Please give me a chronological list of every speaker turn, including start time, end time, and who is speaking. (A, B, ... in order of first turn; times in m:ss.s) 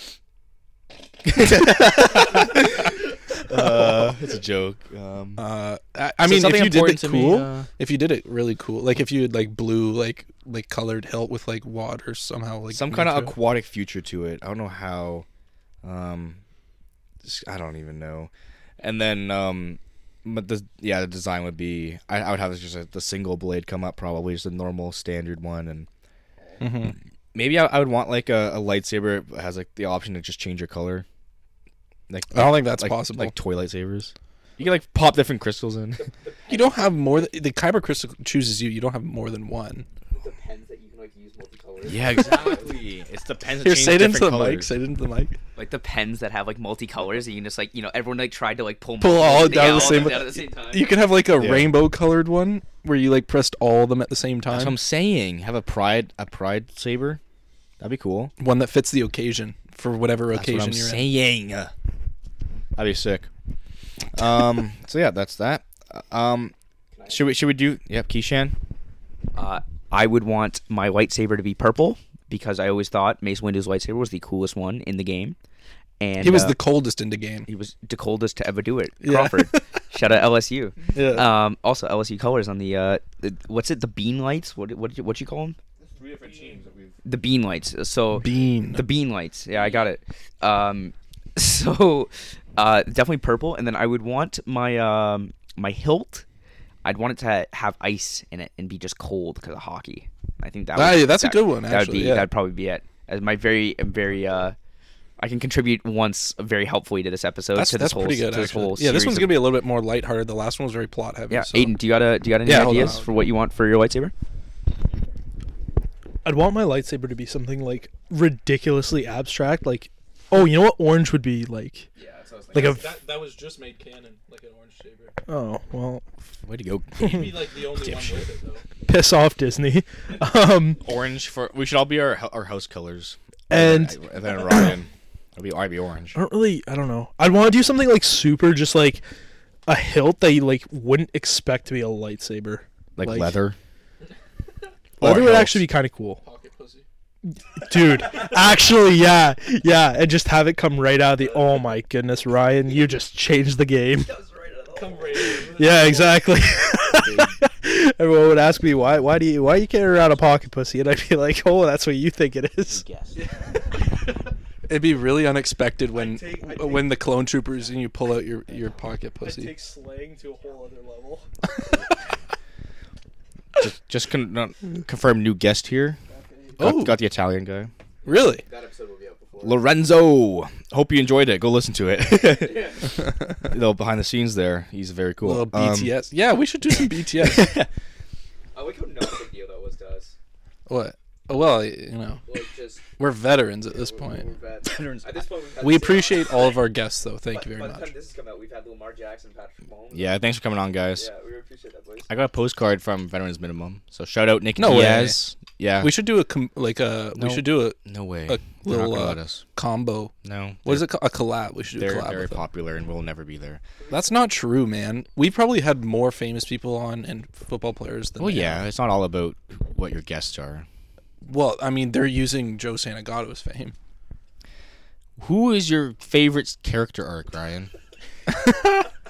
0:01.2-0:05.4 A
0:03.5-0:03.8 B
0:05.4-0:13.3 B
0:06.2-0:07.7 A
0:12.7-0:15.2 A
0:15.8-0:16.4 A
0:17.2-0:25.9 A
0:26.6-0:26.9 B
0:27.3-0:31.0 A
0:32.1-0:36.1 A
0:32.3-0:33.3 B
0:36.0-0:37.2 C
0:36.5-0:39.8 B
0:40.1-0:42.8 C
0:41.8-0:44.7 A
0:41.9-0:42.4 D
0:43.6-0:45.4 B
0:45.6-0:50.6 D
0:49.0-0:54.8 B
0:49.2-0:50.9 C
0:51.4-0:51.7 A
0:54.5-0:57.2 A
0:57.8-0:58.3 A
0:58.4-1:01.0 B
1:00.3-1:01.7 A
1:02.7-1:03.3 A
1:04.1-1:06.5 A
1:06.9-1:07.3 C
1:07.1-1:08.6 A
1:09.3-1:15.4 D
1:16.0-1:16.6 D
1:16.2-1:17.5 B
1:17.5-1:25.6 D
1:19.0-1:19.8 B
1:20.9-1:21.3 B
1:25.8-1:26.9 C
1:26.2-1:26.6 E
1:27.0-1:36.2 D
1:28.1-1:28.8 B
1:29.5-1:29.9 C
1:36.8-1:44.6 D
1:40.7-1:42.3 B
1:45.2-1:49.4 D
1:47.5-1:51.8 B
1:51.3-1:54.1 D
1:52.4-1:53.1 B
1:56.2-2:01.9 F
2:02.0-2:02.9 C
2:02.5-2:03.0 F
2:02.7-2:05.2 E
2:05.2-2:06.0 F
2:06.4-2:08.2 A
2:07.0-2:08.0 F
2:07.2-2:08.6 E
2:08.8-2:10.8 F
2:10.8-2:16.2 A
2:13.5-2:14.7 F
2:16.1-2:19.0 F
2:19.6-2:23.3 F
2:23.0-2:23.6 A
2:25.0-2:26.2 F
2:25.0-2:25.7 A
2:26.2-2:26.8 E
2:27.5-2:34.2 F
2:34.1-2:35.3 C
2:34.8-2:36.1 E
2:35.3-2:42.8 F
2:37.0-2:37.3 A
2:42.7-2:43.2 A
2:44.7-2:49.6 B
2:46.0-2:47.0 E
2:53.6-2:56.0 A
2:56.1-2:56.4 E
2:56.6-2:57.0 B
2:56.6-2:57.7 A
2:58.0-2:59.6 C
2:58.0-2:58.4 B
2:59.4-3:06.0 A
3:02.1-3:02.8 C
3:05.2-3:07.6 B
3:07.1-3:07.7 A
3:08.5-3:10.1 C
3:10.7-3:12.2 B
3:12.3-3:12.8 C
3:13.0-3:14.3 B
3:13.7-3:16.6 C
3:14.6-3:15.3 A
3:15.6-3:17.9 B
3:17.3-3:20.2 C
3:19.9-3:21.1 A
3:20.9-3:22.1 C
3:22.1-3:26.0 A
3:24.6-3:25.2 B
3:25.8-3:27.8 B
3:27.2-3:29.4 A
3:28.3-3:30.1 B
3:30.2-3:30.9 A
3:30.6-3:32.4 B
3:31.7-3:33.6 A
3:33.9-3:38.6 B
3:38.2-3:40.7 A
3:41.2-3:43.7 B
3:45.2-3:47.7 A
3:48.3-3:48.9 B